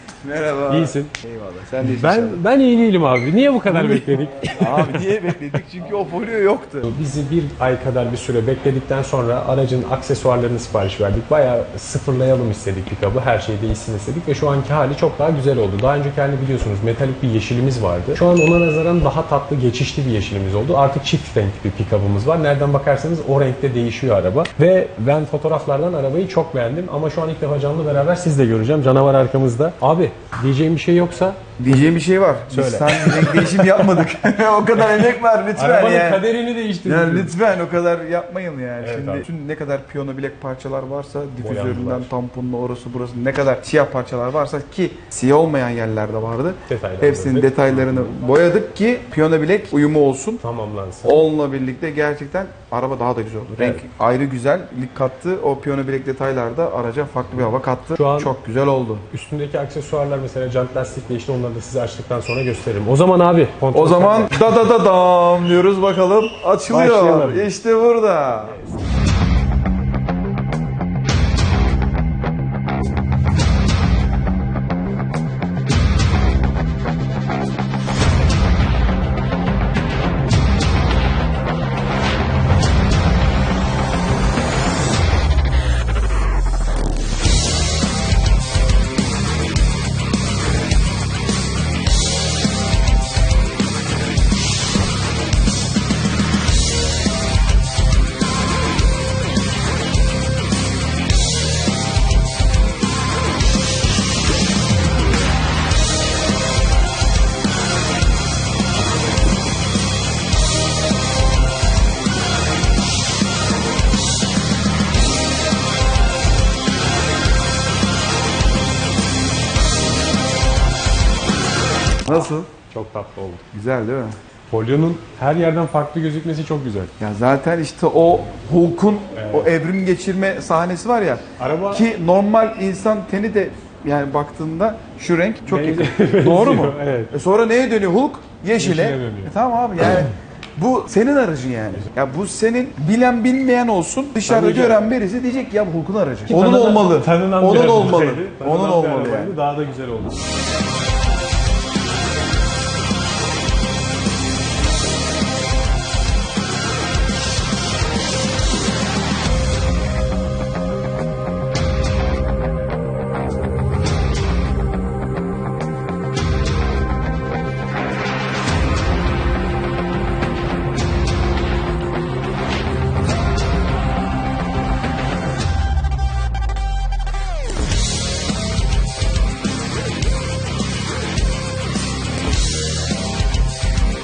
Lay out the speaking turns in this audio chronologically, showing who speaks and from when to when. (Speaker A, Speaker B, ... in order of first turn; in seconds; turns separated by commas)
Speaker A: 0.2-2.4, Speaker B: 0.7-1.1, Speaker B: 1.8-5.1, Speaker A: 3.7-6.9, Speaker B: 6.8-31.5, Speaker A: 31.6-36.3, Speaker B: 32.5-33.7, Speaker B: 35.6-37.3, Speaker A: 36.8-50.4, Speaker B: 38.8-39.2, Speaker B: 41.4-42.1, Speaker B: 46.7-48.1, Speaker B: 50.4-51.2, Speaker A: 51.0-59.1, Speaker B: 53.5-53.8, Speaker B: 58.0-58.3, Speaker B: 59.1-64.4, Speaker A: 63.7-68.6, Speaker B: 66.7-67.5, Speaker A: 122.1-122.5, Speaker B: 122.1-123.4, Speaker A: 123.5-124.2, Speaker B: 124.5-126.9, Speaker A: 127.0-149.3, Speaker B: 129.2-129.5, Speaker B: 131.4-131.8, Speaker B: 135.5-137.1, Speaker B: 138.6-139.3, Speaker B: 144.3-144.8, Speaker B: 146.3-150.2